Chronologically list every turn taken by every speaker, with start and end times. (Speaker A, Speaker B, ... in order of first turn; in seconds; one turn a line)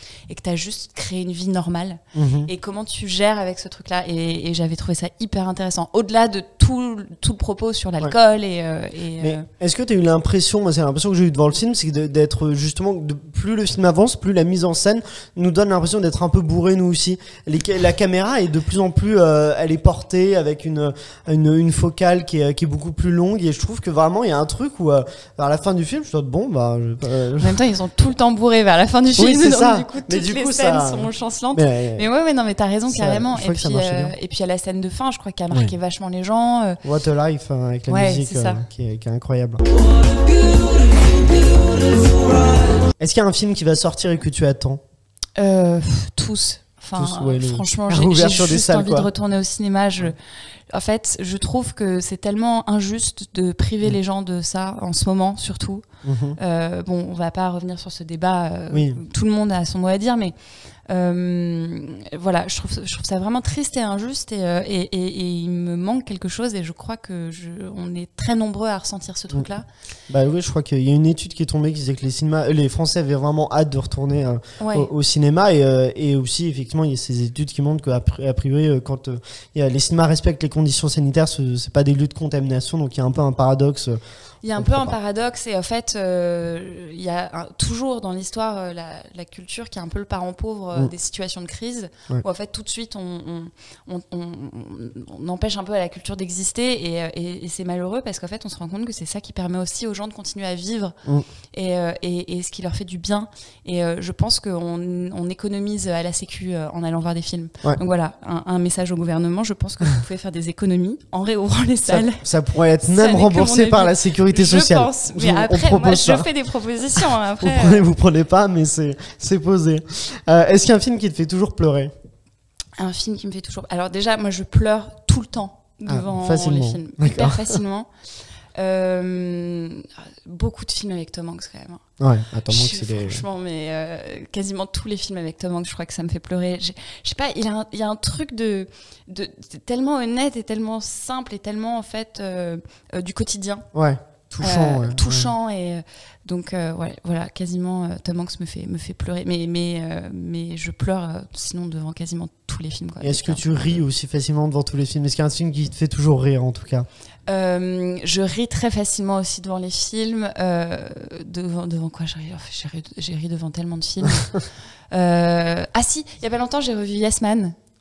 Speaker A: 0.3-9.5
Speaker B: 2.1-2.5
Speaker B: 9.2-27.6
Speaker A: 27.4-36.8
Speaker B: 29.1-32.1
Speaker B: 32.9-34.1
Speaker B: 36.8-39.6
Speaker A: 37.9-38.6
Speaker B: 43.0-44.8
Speaker A: 45.4-50.2
Speaker B: 47.0-49.1
Speaker A: 50.7-55.9
Speaker B: 56.0-56.4
Speaker A: 56.4-60.3
Speaker B: 58.7-59.0
Speaker A: 60.9-69.7
Speaker B: 70.1-84.0
Speaker A: 74.6-74.9
Speaker A: 84.4-101.0
Speaker B: 84.6-85.0
Speaker A: 101.5-112.2
Speaker B: 111.9-116.3
Speaker A: 112.8-117.9
Speaker B: 117.4-121.9
Speaker A: 122.8-127.9
Speaker B: 125.9-127.6
Speaker A: 128.6-131.8
Speaker B: 132.0-133.2
Speaker A: 132.5-143.7
Speaker B: 143.7-145.3
Speaker A: 144.4-153.8
Speaker B: 153.0-156.9
Speaker A: 157.3-164.4
Speaker A: 164.9-167.6